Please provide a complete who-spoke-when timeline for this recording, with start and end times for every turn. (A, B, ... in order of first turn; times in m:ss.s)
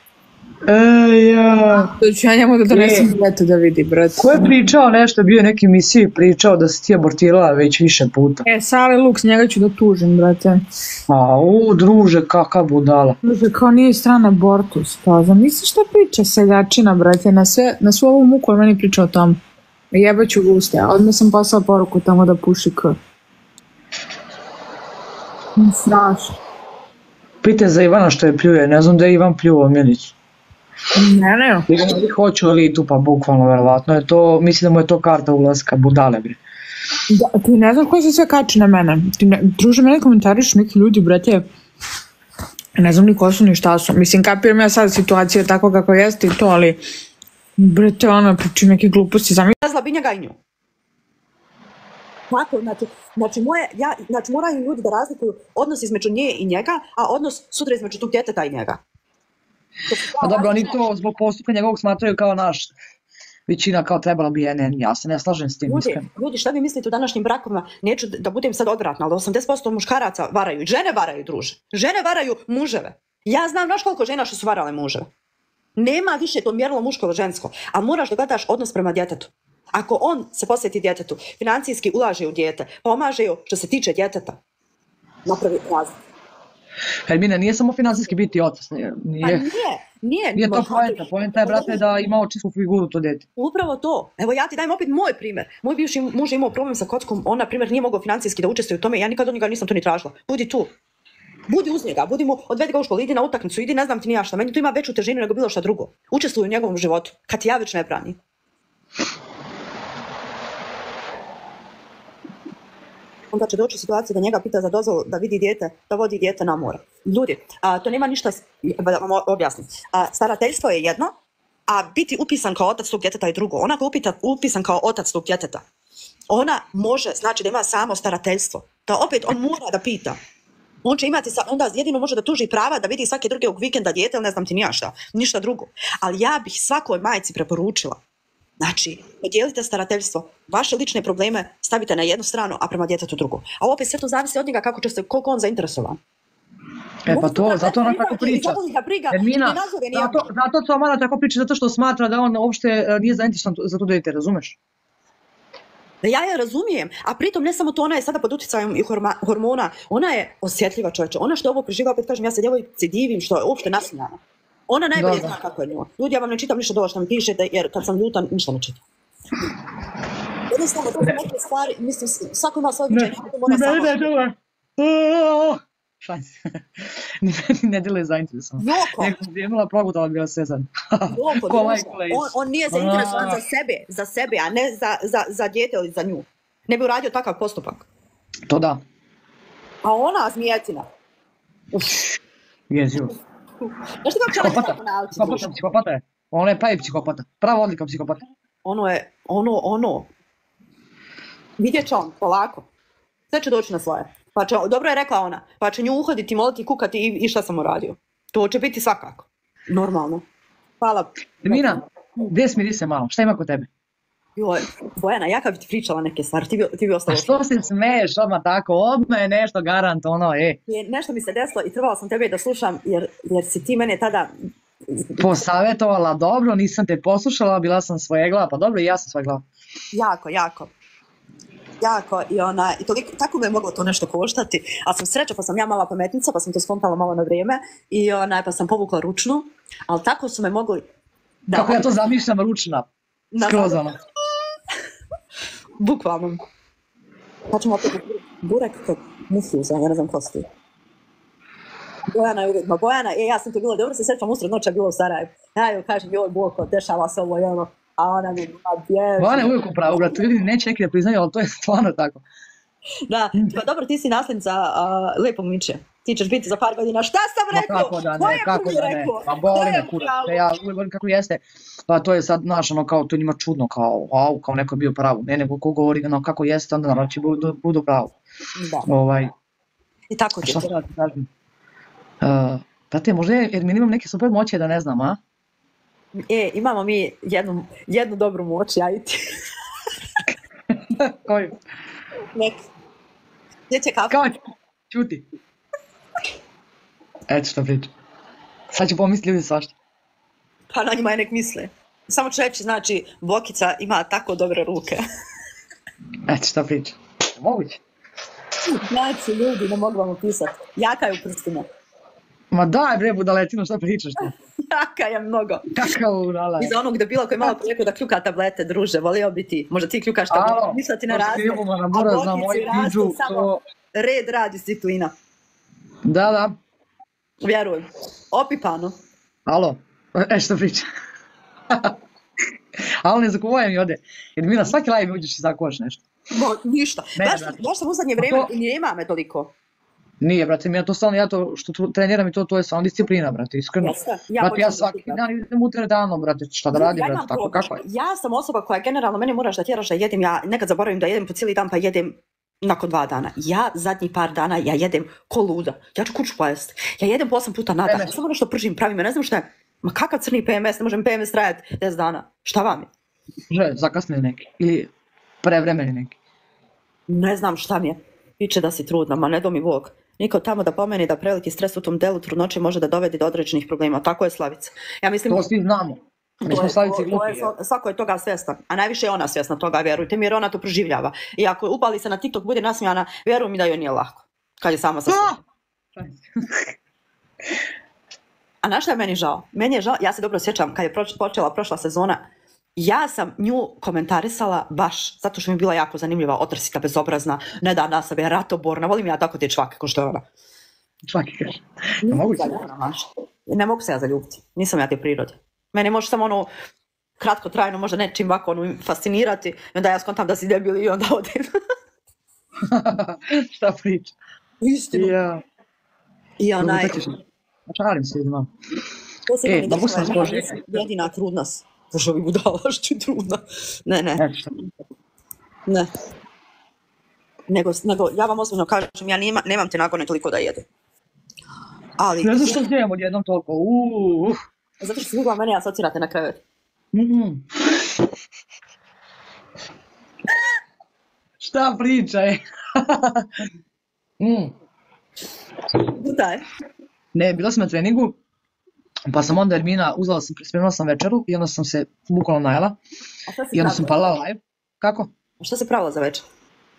0:00.7-0:01.9 A
0:01.8-0:04.5 B
0:02.7-0:03.1 A
0:04.2-0:08.4 A
0:08.5-0:10.6 B
0:11.1-0:13.2 A
0:13.2-0:19.4 B
0:19.9-0:23.0 B
0:25.6-0:26.3 B
0:27.4-0:30.2 A
0:31.0-0:31.7 B
0:31.7-0:36.4 A
0:37.1-0:41.4 B
0:42.8-0:46.8 B
0:47.6-0:49.5 B
0:49.6-0:50.4 C
0:52.3-0:58.8 C
0:59.9-1:00.8 C
1:00.2-1:02.7 A
1:03.5-1:06.1 A
1:05.7-1:15.1 C
1:15.8-1:24.4 C
1:25.3-1:25.9 C
1:27.1-1:29.5 A
1:29.2-1:31.8 C
1:30.4-1:33.3 A
1:33.4-1:40.7 C
1:41.5-1:48.2 C
1:53.3-2:01.1 C
2:01.7-2:05.6 C
2:06.3-2:10.2 C
2:10.8-2:18.0 C
2:18.6-2:26.0 C
2:27.0-2:34.6 A
2:27.1-2:30.3 C
2:36.0-2:48.8 C
2:45.0-2:45.4 A
2:50.5-2:54.1 C
2:52.9-3:03.4 A
2:58.6-2:59.2 C
3:01.1-3:07.9 C
3:08.5-3:08.8 A
3:09.8-3:10.9 C
3:11.7-3:12.0 C
3:12.7-3:13.2 A
3:14.0-3:15.5 C
3:14.3-3:18.3 A
3:18.6-3:20.1 C
3:21.6-3:22.7 C
3:23.3-3:30.2 C
3:30.8-3:32.3 C
3:31.4-3:33.7 A
3:34.4-3:37.5 C
3:37.1-3:40.6 A
3:40.7-3:44.3 C
3:44.9-3:45.3 C
3:45.2-3:49.4 A
3:49.9-3:50.7 C
3:51.8-4:00.8 C
4:01.5-4:01.9 C
4:01.5-4:02.9 A
4:03.3-4:03.9 C
4:03.5-4:04.0 A
4:05.8-4:06.4 C
4:07.5-4:10.5 C
4:12.1-4:19.6 C
4:19.2-4:22.2 A
4:23.1-4:30.5 C
4:27.5-4:38.2 A
4:38.6-4:38.9 C
4:38.9-4:39.3 A
4:40.1-4:40.7 C
4:40.4-4:41.3 A
4:42.2-4:45.2 A
4:46.2-4:49.2 C
4:50.7-4:51.5 A
4:53.7-4:54.2 C
4:54.1-4:54.4 A
4:54.9-4:55.2 A
4:57.3-4:57.9 A
4:58.7-4:59.8 A
5:00.7-5:05.0 C
5:06.3-5:07.8 A
5:08.7-5:11.7 C
5:12.5-5:14.3 A
5:14.7-5:15.7 C
5:15.7-5:16.8 A
5:16.6-5:25.1 C
5:20.3-5:23.6 A
5:26.0-5:26.6 A
5:27.4-5:29.0 C
5:29.5-5:30.9 A
5:31.7-5:32.0 A
5:33.0-5:36.0 A
5:36.3-5:39.5 C
5:37.2-5:37.6 A
5:38.2-5:38.5 A
5:40.2-5:47.8 A
5:43.8-5:45.2 C
5:46.7-6:02.9 C
5:57.9-5:58.1 A
6:03.5-6:04.9 A
6:05.4-6:06.2 A
6:07.1-6:15.4 C
6:15.3-6:17.5 A
6:16.4-6:25.4 C
6:25.1-6:25.4 A
6:26.0-6:26.7 A
6:28.6-6:32.2 C
6:32.8-6:40.3 C
6:41.1-6:42.5 A
6:42.1-6:46.5 C
6:47.2-6:51.5 C
6:52.6-6:54.2 A
6:54.6-6:55.2 C
6:54.9-6:55.4 A
6:56.4-6:57.0 C
6:56.6-6:57.2 A
6:57.7-6:58.5 A
6:59.3-7:04.2 C
6:59.5-7:00.8 A
7:04.2-7:04.5 A
7:07.5-7:10.6 C
7:12.0-7:12.6 C
7:12.2-7:14.4 A
7:14.8-7:16.4 C
7:16.9-7:17.9 A
7:21.4-7:23.3 A
7:24.2-7:24.6 A
7:26.0-7:26.4 C
7:27.1-7:28.2 A
7:29.1-7:32.8 A
7:33.3-7:34.0 C
7:33.5-7:35.1 A
7:35.4-7:36.2 C